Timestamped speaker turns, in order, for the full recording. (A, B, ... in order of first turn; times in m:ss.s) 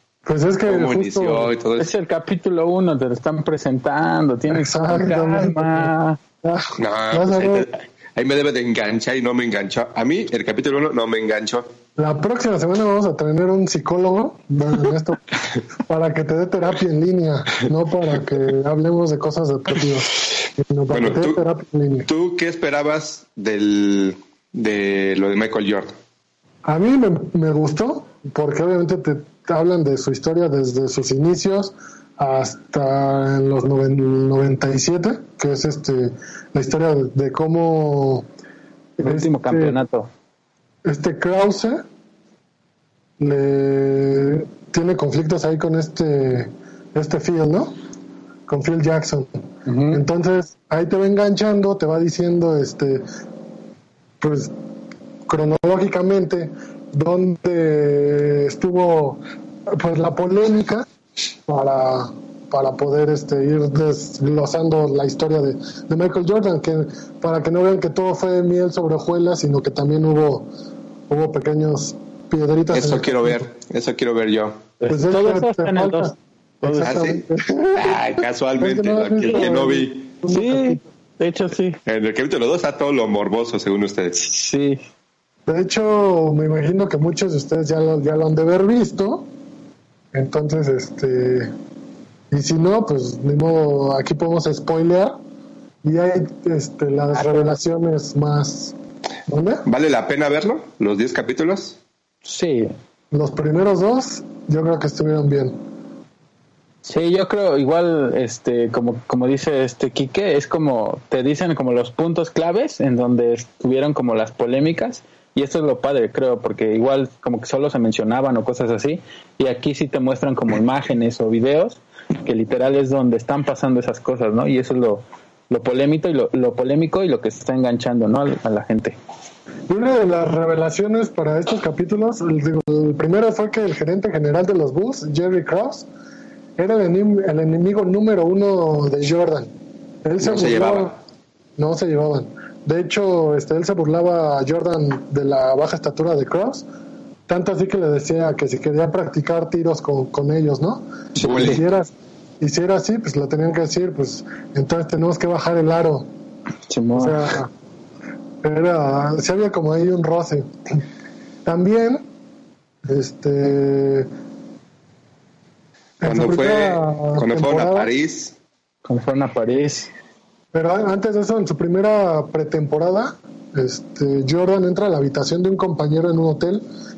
0:00.2-0:01.5 A
0:00.6-0:01.9 B
0:01.8-0:06.2 C
0:04.5-0:05.9 A
0:06.4-0:07.7 A
0:06.8-0:11.7 B
0:12.0-0:15.2 A
0:15.8-0:22.1 A
0:20.9-0:21.4 B
0:22.0-0:25.9 B
0:26.6-0:38.3 A
0:39.0-0:39.8 A
0:39.0-0:40.1 C
0:40.8-0:41.8 A
0:43.2-0:47.8 A
0:48.5-0:49.3 A
0:49.6-0:50.0 C
0:49.9-0:53.1 A
0:54.2-0:54.5 A
0:55.2-1:00.8 A
1:01.5-1:10.5 A
1:11.1-1:13.4 A
1:12.7-1:14.6 B
1:14.8-1:16.9 C
1:14.9-1:18.0 A
1:16.8-1:20.1 B
1:18.6-1:20.9 A
1:20.3-1:21.8 C
1:21.8-1:24.2 B
1:24.2-1:24.8 C
1:25.5-1:29.2 A
1:30.1-1:31.5 A
1:32.3-1:35.2 A
1:35.8-1:38.7 A
1:37.2-1:37.5 C
1:39.3-1:39.6 A
1:39.6-1:41.8 B
1:42.2-1:42.7 C
1:43.1-1:45.6 A
1:46.8-2:09.0 C
2:09.7-2:15.9 A
2:16.6-2:19.5 A
2:20.0-2:20.9 A
2:20.2-2:21.0 B
2:21.6-2:26.6 A
2:27.3-2:36.1 A
2:31.2-2:31.6 C
2:31.2-2:31.6 B
2:36.7-2:37.3 C
2:36.9-2:37.5 A
2:38.4-2:40.8 A
2:41.4-2:42.0 A
2:42.8-2:44.1 A
2:46.0-2:47.9 A
2:46.0-2:48.3 B
2:48.8-2:49.9 C
2:50.5-2:56.6 A